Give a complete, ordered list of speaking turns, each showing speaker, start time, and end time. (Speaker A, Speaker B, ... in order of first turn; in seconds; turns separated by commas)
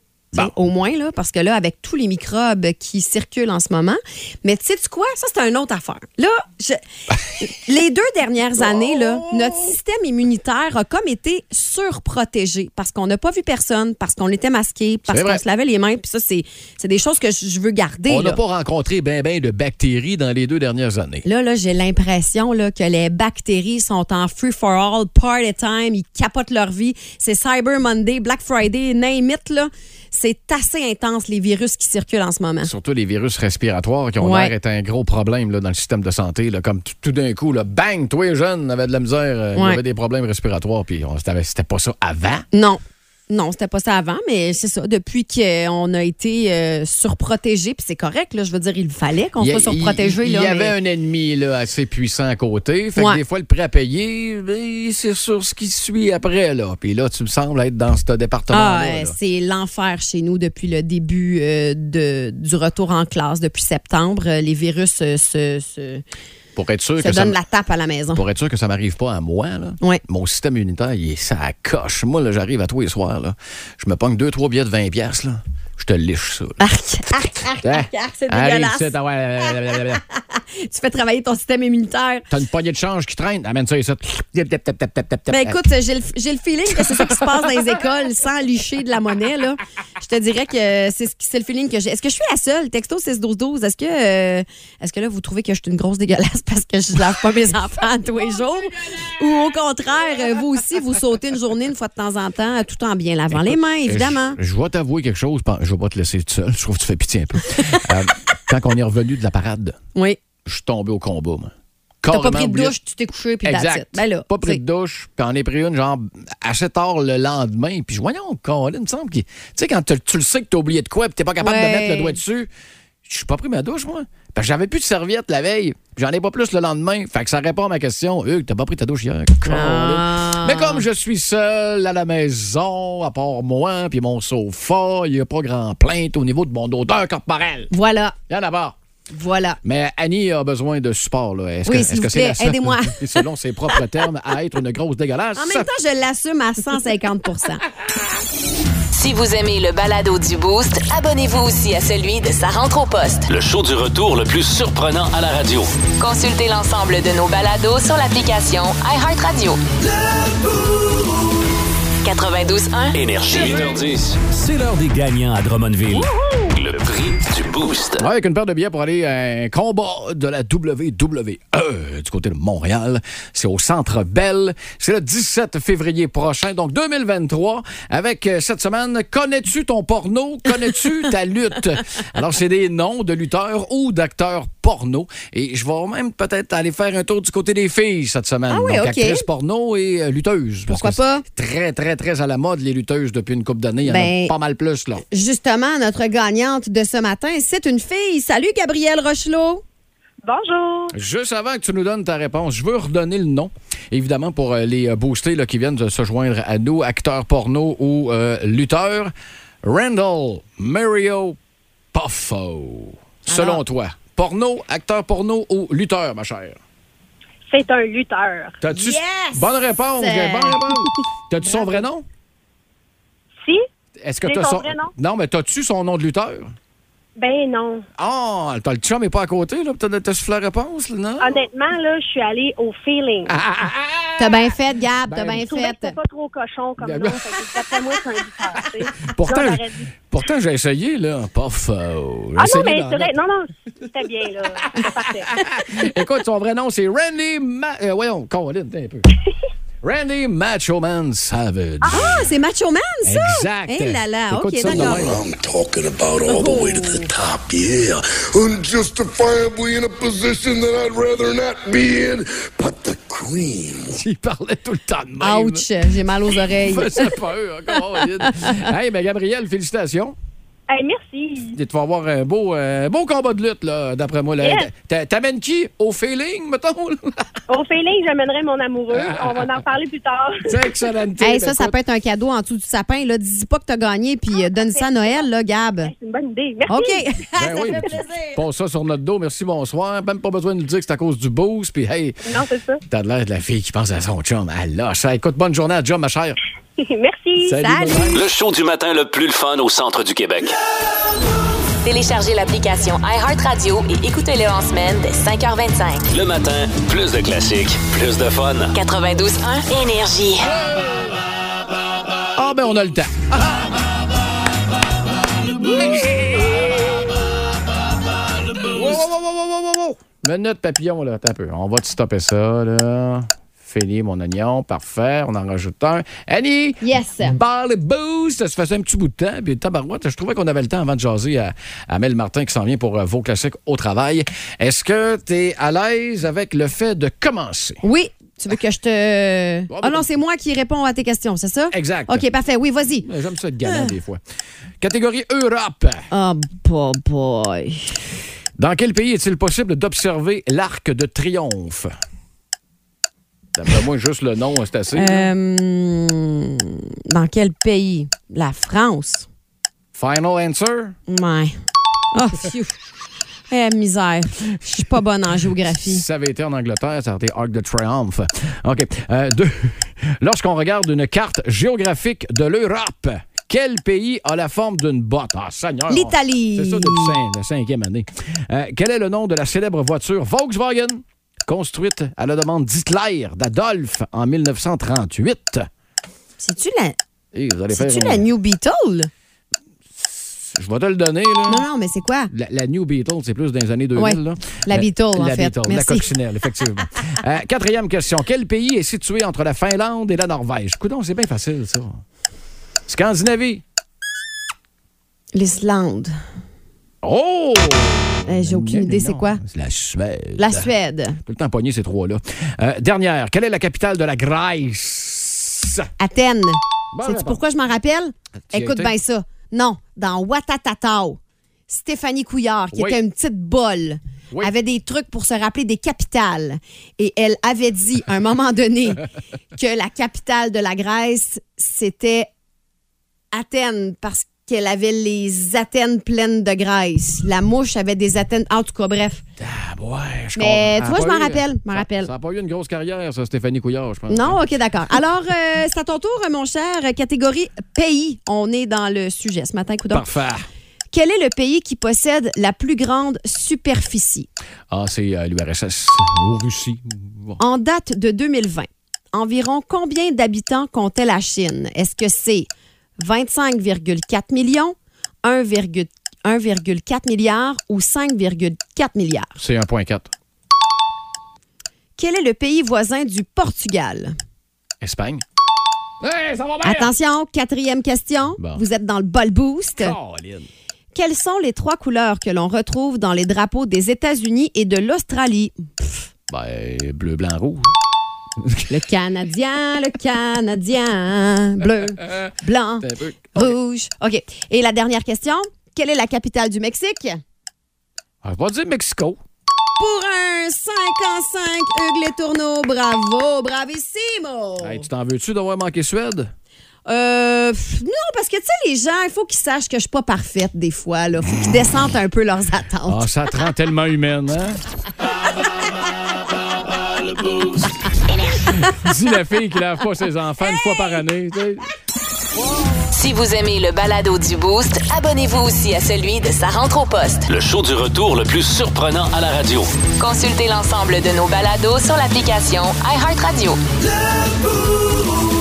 Speaker A: 0.3-6.8, Speaker A: 7.4-18.4, Speaker B: 8.6-9.8, Speaker B: 15.1-15.4, Speaker B: 18.1-21.3, Speaker A: 21.2-32.7, Speaker B: 32.6-42.5, Speaker A: 34.2-34.5, Speaker A: 39.5-39.8, Speaker A: 42.5-50.7, Speaker B: 49.4-59.2, Speaker A: 58.5-66.0, Speaker B: 66.6-67.4, Speaker A: 67.0-68.2, Speaker B: 68.1-76.6, Speaker A: 76.6-78.9, Speaker B: 77.2-80.0, Speaker A: 79.5-82.3, Speaker B: 82.3-85.6, Speaker A: 85.3-104.4, Speaker B: 86.7-87.8, Speaker B: 103.4-109.8, Speaker A: 107.5-107.8, Speaker B: 110.5-112.8, Speaker A: 112.1-114.6, Speaker B: 113.4-122.5, Speaker A: 121.4-122.2, Speaker B: 123.0-137.7, Speaker A: 129.4-130.8, Speaker A: 137.7-138.2, Speaker B: 138.3-138.8, Speaker A: 139.1-139.6, Speaker B: 139.6-145.7, Speaker A: 141.7-143.2, Speaker A: 145.4-147.7, Speaker C: 148.9-153.3, Speaker D: 153.3-155.7, Speaker C: 156.0-159.6, Speaker C: 162.0-163.0, Speaker D: 162.9-168.1, Speaker B: 163.3-163.7, Speaker B: 168.0-195.0, Speaker A: 188.5-189.2, Speaker A: 190.7-191.2, Speaker A: 193.8-194.3, Speaker A: 195.1-199.6, Speaker E: 200.2-200.9, Speaker B: 200.9-209.1, Speaker B: 209.6-211.4, Speaker B: 211.9-216.6, Speaker A: 213.3-213.6, Speaker E: 217.5-218.6, Speaker B: 218.6-222.1, Speaker A: 218.7-220.9, Speaker A: 221.4-221.8, Speaker B: 224.0-226.6, Speaker E: 224.2-224.9, Speaker E: 227.2-227.8, Speaker B: 228.0-231.4, Speaker E: 231.2-233.3, Speaker B: 233.3-234.6, Speaker A: 234.2-236.0, Speaker B: 235.1-235.4, Speaker E: 235.4-239.9, Speaker B: 236.8-237.9, Speaker B: 238.8-243.1, Speaker E: 242.4-245.4, Speaker B: 244.6-249.1, Speaker B: 249.8-252.3, Speaker E: 251.8-252.1, Speaker A: 251.9-255.1, Speaker B: 253.1-255.2, Speaker F: 254.7-263.9, Speaker A: 256.3-257.1, Speaker B: 263.9-265.7, Speaker A: 265.2-267.2, Speaker B: 266.3-270.2, Speaker A: 267.9-268.7, Speaker E: 270.7-271.6, Speaker B: 271.5-277.3, Speaker E: 274.4-274.7, Speaker E: 277.5-280.7, Speaker B: 278.9-279.6, Speaker B: 280.4-281.8, Speaker A: 281.2-285.9, Speaker E: 284.4-285.3, Speaker E: 285.8-287.0, Speaker A: 286.7-288.4, Speaker B: 287.4-292.2, Speaker E: 292.2-292.8, Speaker B: 292.9-296.4, Speaker E: 296.8-297.6, Speaker B: 297.4-298.3, Speaker A: 297.6-298.1, Speaker D: 298.1-300.6, Speaker C: 301.8-306.1, Speaker D: 306.1-308.7, Speaker C: 308.7-310.5, Speaker B: 310.5-311.2, Speaker B: 312.4-313.8, Speaker B: 315.6-316.9, Speaker B: 318.7-337.8, Speaker A: 326.8-327.4, Speaker A: 337.8-343.1, Speaker B: 339.7-340.1, Speaker B: 341.7-342.2, Speaker B: 343.0-344.2, Speaker A: 343.6-343.9, Speaker B: 344.8-346.1, Speaker A: 346.1-348.0, Speaker B: 348.6-351.9, Speaker B: 353.6-355.3, Speaker A: 354.9-359.3, Speaker B: 359.9-360.9, Speaker A: 361.1-361.5, Speaker A: 362.1-362.7, Speaker A: 363.5-366.0, Speaker B: 365.8-385.7, Speaker A: 375.9-377.2, Speaker A: 386.4-387.0, Speaker B: 387.3-388.3, Speaker A: 387.7-389.1, Speaker B: 390.0-391.6, Speaker A: 391.5-392.3, Speaker B: 392.3-402.0, Speaker A: 394.0-396.1, Speaker B: 402.9-403.6, Speaker A: 405.3-406.1, Speaker B: 407.0-410.7, Speaker A: 408.3-409.4, Speaker A: 410.4-411.2, Speaker B: 411.2-415.9, Speaker A: 416.0-432.3, Speaker B: 416.9-417.4, Speaker B: 418.5-418.9, Speaker B: 422.7-423.0, Speaker A: 433.3-439.2, Speaker B: 439.4-444.4, Speaker A: 440.4-442.1, Speaker A: 444.1-450.1, Speaker B: 449.9-450.5, Speaker A: 450.9-454.3, Speaker B: 454.7-457.4, Speaker A: 457.4-469.4, Speaker B: 469.4-470.1, Speaker A: 472.0-474.2, Speaker B: 474.8-475.2, Speaker B: 476.0-476.9, Speaker A: 476.6-480.0, Speaker B: 478.4-478.6, Speaker B: 479.8-480.5, Speaker A: 480.9-486.1, Speaker B: 486.3-487.7, Speaker B: 488.4-488.7, Speaker A: 488.7-497.2, Speaker B: 492.0-493.6, Speaker B: 498.2-499.2, Speaker A: 499.8-504.9, Speaker B: 504.6-506.3, Speaker A: 506.9-513.0, Speaker B: 512.9-514.6, Speaker D: 517.1-517.7, Speaker C: 518.1-518.4, Speaker B: 518.6-521.6, Speaker C: 522.9-527.3, Speaker D: 527.3-529.7, Speaker C: 530.0-533.6